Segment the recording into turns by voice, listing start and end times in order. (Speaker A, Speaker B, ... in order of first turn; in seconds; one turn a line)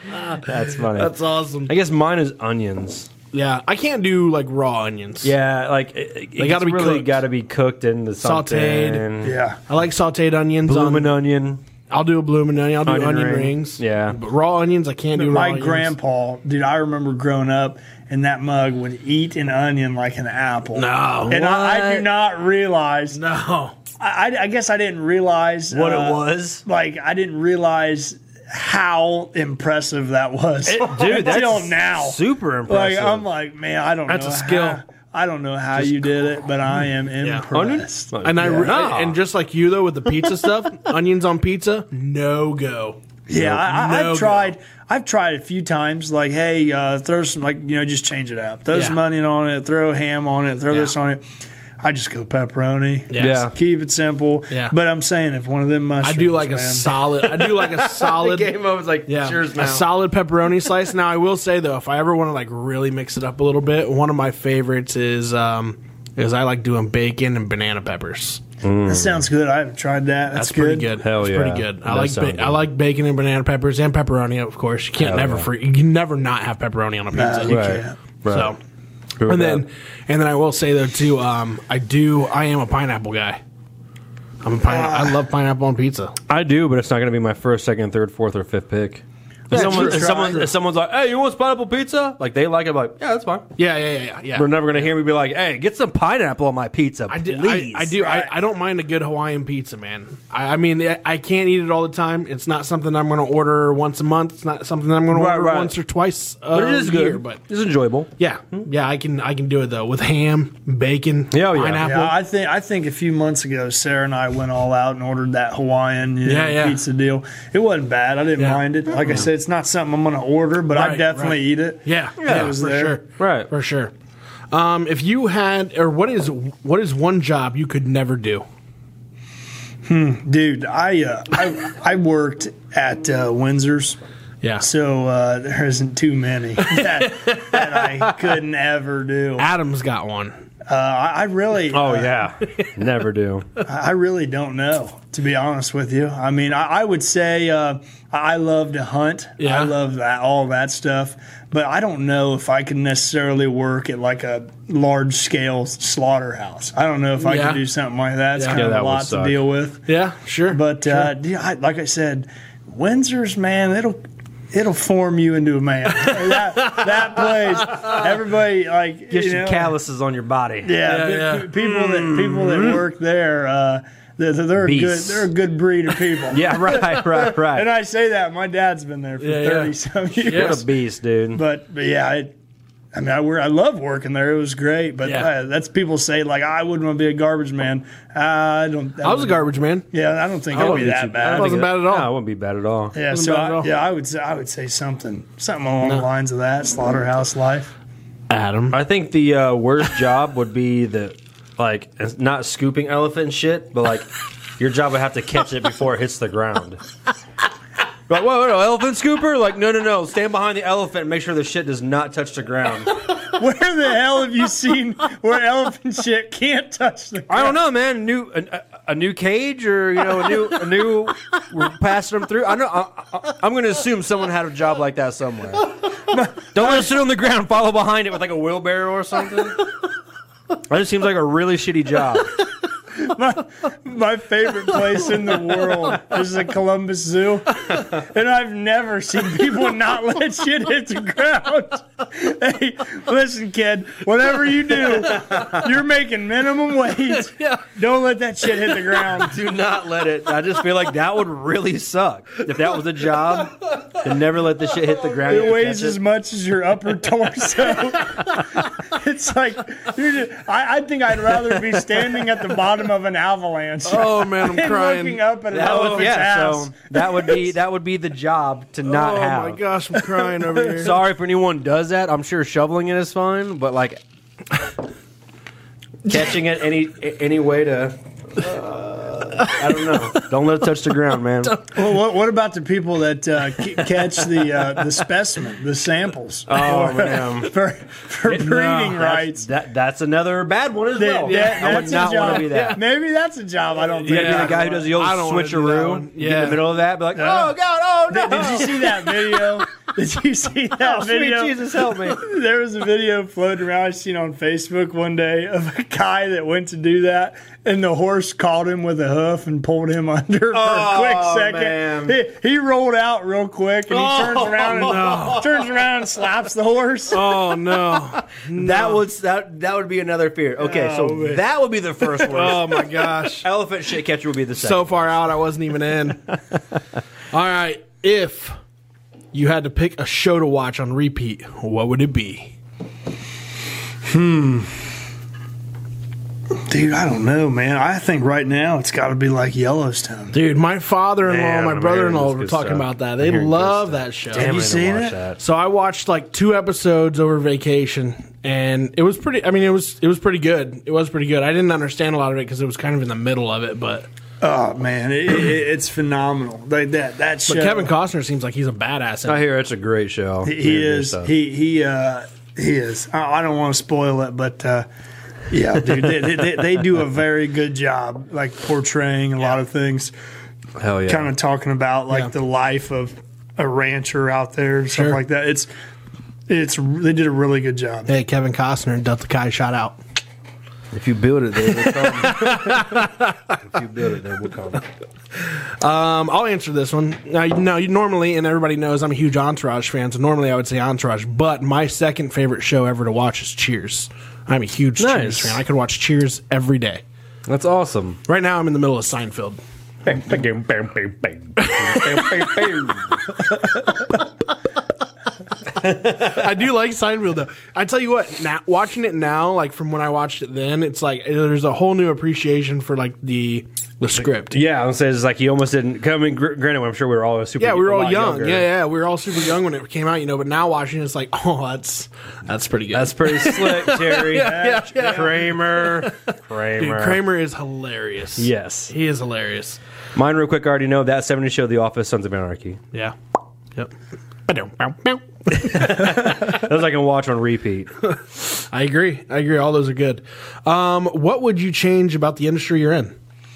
Speaker A: 0.1-3.1
Speaker B: 0.2-1.7
Speaker B: 3.3-5.3
Speaker A: 5.2-9.4
Speaker B: 6.4-7.2
Speaker B: 8.2-9.1
Speaker C: 9.2-9.6
Speaker B: 9.7-11.1
Speaker A: 10.6-11.6
Speaker B: 11.9-15.9
Speaker A: 12.8-14.2
Speaker C: 15.1-23.2
Speaker B: 20.7-21.9
Speaker A: 21.3-22.0
Speaker B: 23.1-23.8
Speaker C: 24.0-38.8
Speaker A: 25.7-26.6
Speaker A: 30.6-33.3
Speaker B: 34.1-34.8
Speaker B: 37.2-37.5
Speaker A: 37.5-39.2
Speaker B: 38.2-43.0
Speaker C: 43.3-51.2
Speaker A: 43.4-43.6
Speaker B: 43.6-44.5
Speaker B: 48.7-49.0
Speaker C: 51.8-57.3
Speaker B: 53.1-53.5
Speaker A: 53.1-53.5
Speaker B: 56.0-58.5
Speaker A: 57.4-59.9
Speaker B: 59.1-68.4
Speaker A: 68.6-69.2
Speaker C: 68.8-70.9
Speaker B: 70.3-78.6
Speaker A: 71.0-72.6
Speaker A: 75.0-75.5
Speaker C: 77.1-77.9
Speaker A: 77.4-78.5
Speaker A: 79.2-79.6
Speaker B: 79.3-83.4
Speaker B: 84.4-86.2
Speaker C: 84.7-85.2
Speaker A: 86.3-93.5
Speaker B: 89.5-90.4
Speaker C: 89.5-90.5
Speaker B: 93.6-94.9
Speaker A: 94.3-98.2
Speaker B: 97.1-107.4
Speaker C: 98.0-98.3
Speaker A: 105.1-105.7
Speaker A: 106.5-108.1
Speaker B: 108.2-112.2
Speaker A: 111.3-111.9
Speaker C: 111.8-123.0
Speaker B: 116.2-116.8
Speaker B: 118.4-119.2
Speaker B: 120.7-123.9
Speaker A: 122.2-122.5
Speaker A: 123.2-123.5
Speaker B: 124.5-128.4
Speaker C: 129.8-134.0
Speaker C: 134.6-139.5
Speaker B: 136.7-138.2
Speaker B: 139.4-140.3
Speaker C: 140.7-142.2
Speaker A: 141.7-143.5
Speaker C: 143.7-159.8
Speaker B: 149.4-149.7
Speaker B: 157.2-157.6
Speaker B: 158.3-158.6
Speaker A: 158.5-159.4
Speaker B: 159.9-161.1
Speaker C: 160.5-169.7
Speaker B: 166.0-168.0
Speaker A: 169.1-170.8
Speaker C: 170.6-180.6
Speaker B: 170.9-171.5
Speaker A: 171.6-172.8
Speaker A: 174.6-175.3
Speaker A: 176.3-177.7
Speaker B: 179.2-179.7
Speaker A: 180.2-181.4
Speaker B: 180.2-180.6
Speaker C: 181.3-182.3
Speaker C: 182.9-191.6
Speaker B: 185.0-185.3
Speaker B: 189.0-189.8
Speaker A: 190.5-193.0
Speaker B: 190.5-192.1
Speaker C: 192.9-197.7
Speaker B: 193.1-193.7
Speaker B: 198.3-198.8
Speaker A: 198.7-206.8
Speaker A: 208.1-212.9
Speaker C: 213.0-217.6
Speaker A: 217.3-225.7
Speaker C: 226.1-226.9
Speaker A: 226.5-229.6
Speaker A: 230.6-232.3
Speaker C: 232.9-249.4
Speaker A: 249.0-256.0
Speaker C: 255.2-267.5
Speaker B: 263.8-266.1
Speaker A: 265.5-269.6
Speaker B: 268.8-271.0
Speaker C: 269.9-270.9
Speaker A: 270.8-274.0
Speaker A: 276.1-281.6
Speaker B: 279.4-280.2
Speaker B: 281.4-281.8
Speaker C: 281.7-289.4
Speaker A: 286.5-287.5
Speaker A: 288.2-292.8
Speaker C: 291.0-294.9
Speaker B: 291.2-292.8
Speaker B: 294.0-296.7
Speaker A: 294.0-299.3
Speaker C: 297.1-297.6
Speaker C: 298.1-317.4
Speaker A: 300.8-302.2
Speaker A: 310.5-312.2
Speaker A: 313.9-315.4
Speaker B: 314.8-315.4
Speaker B: 317.1-319.0
Speaker A: 317.1-325.1
Speaker C: 320.6-321.4
Speaker B: 322.1-323.5
Speaker B: 324.6-326.4
Speaker B: 327.3-328.5
Speaker B: 329.3-332.5
Speaker C: 334.0-334.9
Speaker C: 336.5-340.4
Speaker B: 340.3-344.5
Speaker A: 341.2-345.4
Speaker C: 344.3-345.2
Speaker B: 345.4-354.1
Speaker C: 354.4-357.9
Speaker B: 357.5-359.4
Speaker A: 359.2-361.3
Speaker C: 360.4-364.9
Speaker C: 365.5-370.1
Speaker A: 370.8-371.3
Speaker C: 371.1-375.7
Speaker B: 374.9-375.2
Speaker C: 376.5-378.1
Speaker B: 378.1-380.0
Speaker A: 380.9-384.8
Speaker B: 381.6-383.3
Speaker B: 385.4-397.0
Speaker A: 395.0-395.6
Speaker A: 397.5-398.2
Speaker B: 398.3-399.6
Speaker A: 400.0-403.6
Speaker B: 401.6-402.7
Speaker A: 405.8-406.4
Speaker B: 405.9-414.6
Speaker A: 414.5-418.7
Speaker B: 417.6-429.8
Speaker A: 422.9-427.2
Speaker C: 424.3-425.3
Speaker A: 428.4-428.9
Speaker A: 430.1-432.8
Speaker B: 434.5-436.3
Speaker A: 435.5-437.9
Speaker B: 438.1-443.1